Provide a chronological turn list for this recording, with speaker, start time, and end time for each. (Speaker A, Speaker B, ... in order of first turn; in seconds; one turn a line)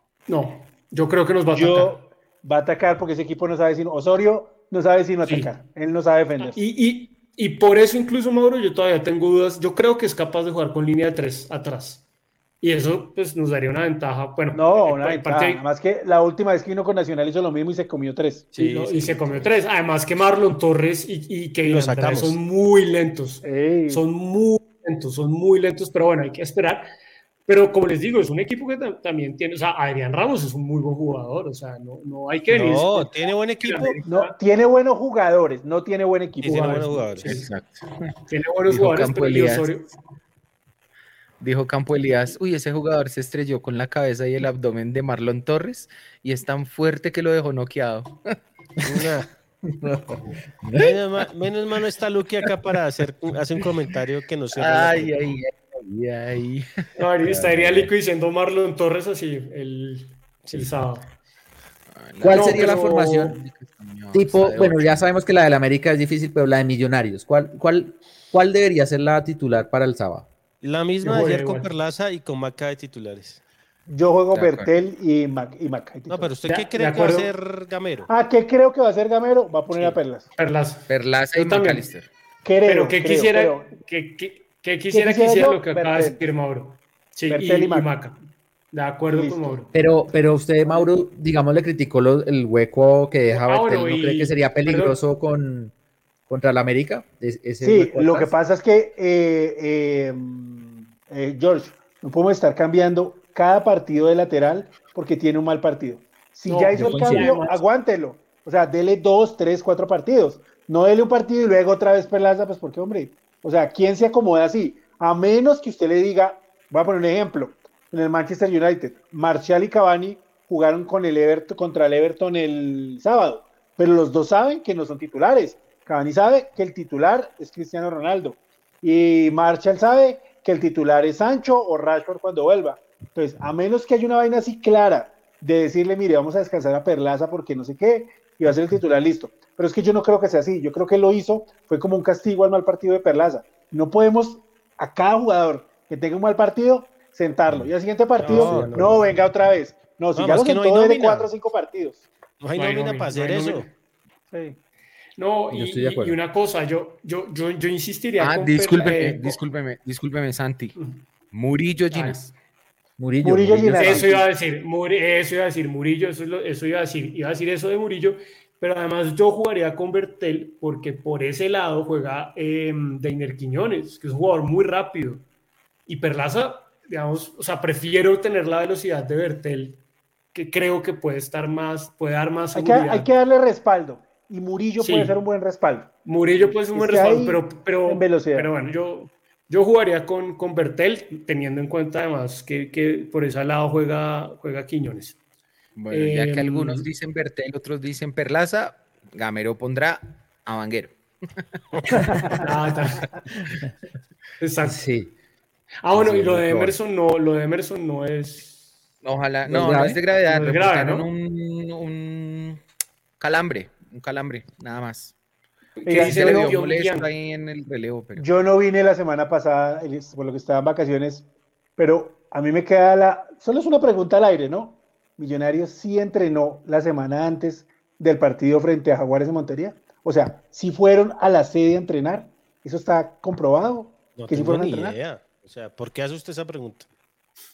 Speaker A: 0.3-1.9
Speaker B: 1.5-6.6
Speaker A: 5.2-5.5
Speaker A: 6.4-12.0
Speaker A: 12.6-15.6
Speaker B: 14.5-18.6
Speaker C: 18.5-19.5
Speaker A: 18.6-26.9
Speaker C: 21.7-22.4
Speaker B: 23.4-24.0
Speaker A: 27.5-34.3
Speaker C: 32.5-34.0
Speaker B: 34.0-37.1
Speaker C: 36.4-37.4
Speaker A: 36.6-37.5
Speaker D: 37.2-38.1
Speaker A: 38.3-39.9
Speaker D: 38.7-39.7
Speaker D: 41.4-48.4
Speaker C: 48.8-49.3
Speaker C: 50.7-55.2
Speaker D: 54.5-56.9
Speaker A: 57.0-61.0
Speaker E: 57.2-57.9
Speaker D: 61.9-65.1
Speaker E: 62.2-63.4
Speaker A: 62.3-63.4
Speaker E: 64.1-70.3
Speaker C: 70.6-73.4
Speaker A: 71.0-71.7
Speaker B: 73.9-76.3
Speaker D: 74.3-74.7
Speaker C: 76.1-78.1
Speaker A: 76.5-77.3
Speaker B: 78.1-80.3
Speaker A: 80.4-81.9
Speaker D: 80.9-82.1
Speaker B: 82.4-83.7
Speaker A: 82.7-88.2
Speaker B: 84.9-86.2
Speaker B: 87.3-87.9
Speaker A: 88.7-89.7
Speaker B: 89.0-89.7
Speaker E: 89.7-95.7
Speaker A: 93.3-95.0
Speaker E: 96.3-98.3
Speaker B: 97.6-152.1
Speaker A: 106.5-107.6
Speaker E: 106.7-107.3
Speaker E: 147.5-149.1
Speaker C: 148.2-149.0
Speaker C: 150.2-151.3
Speaker C: 152.4-153.7
Speaker A: 152.5-153.7
Speaker B: 154.3-154.6
Speaker A: 155.2-159.4
Speaker E: 155.5-156.2
Speaker D: 158.2-160.8
Speaker D: 161.3-162.3
Speaker A: 161.9-162.3
Speaker E: 163.0-164.1
Speaker B: 163.2-164.2
Speaker A: 163.8-175.2
Speaker A: 175.9-179.8
Speaker A: 180.3-183.1
Speaker B: 182.5-185.9
Speaker A: 184.8-185.2
Speaker A: 186.1-195.2
Speaker B: 186.7-188.5
Speaker D: 195.8-200.9
Speaker A: 195.9-196.9
Speaker D: 201.9-202.4
Speaker A: 202.4-203.1
Speaker A: 204.4-204.8
Speaker E: 204.6-205.1
Speaker A: 205.8-208.6
Speaker E: 205.9-206.8
Speaker D: 209.0-212.6
Speaker E: 209.4-210.0
Speaker A: 210.3-211.1
Speaker D: 213.2-215.1
Speaker D: 215.8-218.2
Speaker B: 215.8-216.5
Speaker A: 215.8-217.1
Speaker B: 218.2-235.0
Speaker C: 234.2-236.9